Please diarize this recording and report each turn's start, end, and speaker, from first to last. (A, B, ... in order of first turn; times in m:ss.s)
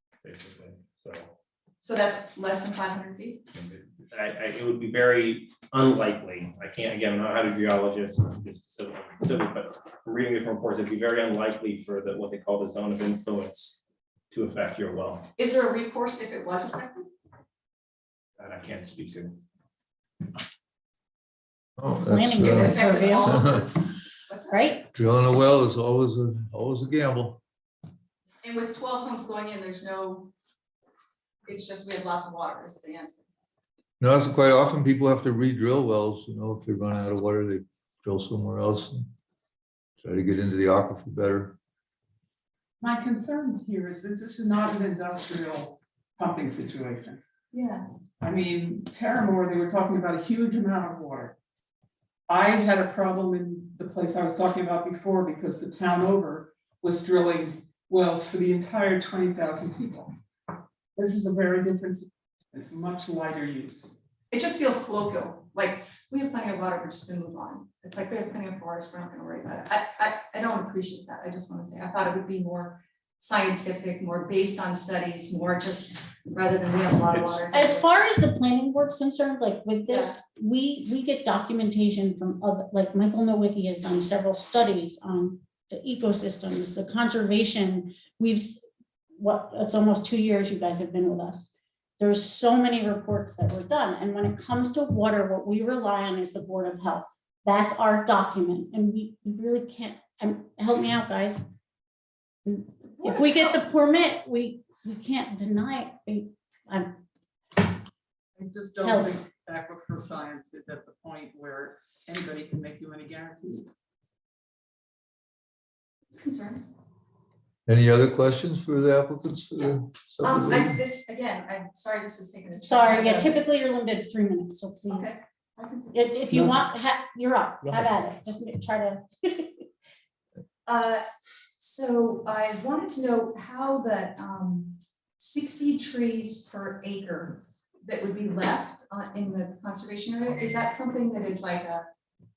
0:00.2-0:01.3 A
0:01.8-0:03.4 B
0:03.6-0:15.3 A
0:15.4-0:17.1 B
0:18.4-0:19.4 A
0:21.8-0:23.6 C
0:22.0-0:23.5 D
0:22.4-0:24.7 B
0:24.5-0:24.9 D
0:24.9-0:27.4 C
0:28.4-0:30.3 B
0:31.4-0:33.2 B
0:34.0-0:39.1 C
0:40.0-0:41.6 C
0:42.8-0:47.2 E
0:47.5-0:47.8 B
0:48.2-0:51.4 E
0:52.3-1:00.1 E
1:01.0-1:03.9 E
1:04.3-1:17.9 B
1:17.5-1:28.6 D
1:19.9-1:20.1 B
1:29.2-1:41.4 D
1:42.4-1:47.0 D
1:43.0-1:43.6 B
1:48.4-1:53.7 E
1:48.8-1:49.2 D
1:56.1-1:56.6 B
1:57.6-2:00.8 C
2:00.2-2:03.4 B
2:02.5-2:05.2 D
2:04.9-2:06.0 B
2:05.9-2:09.6 D
2:10.6-2:11.0 B
2:11.6-2:21.9 B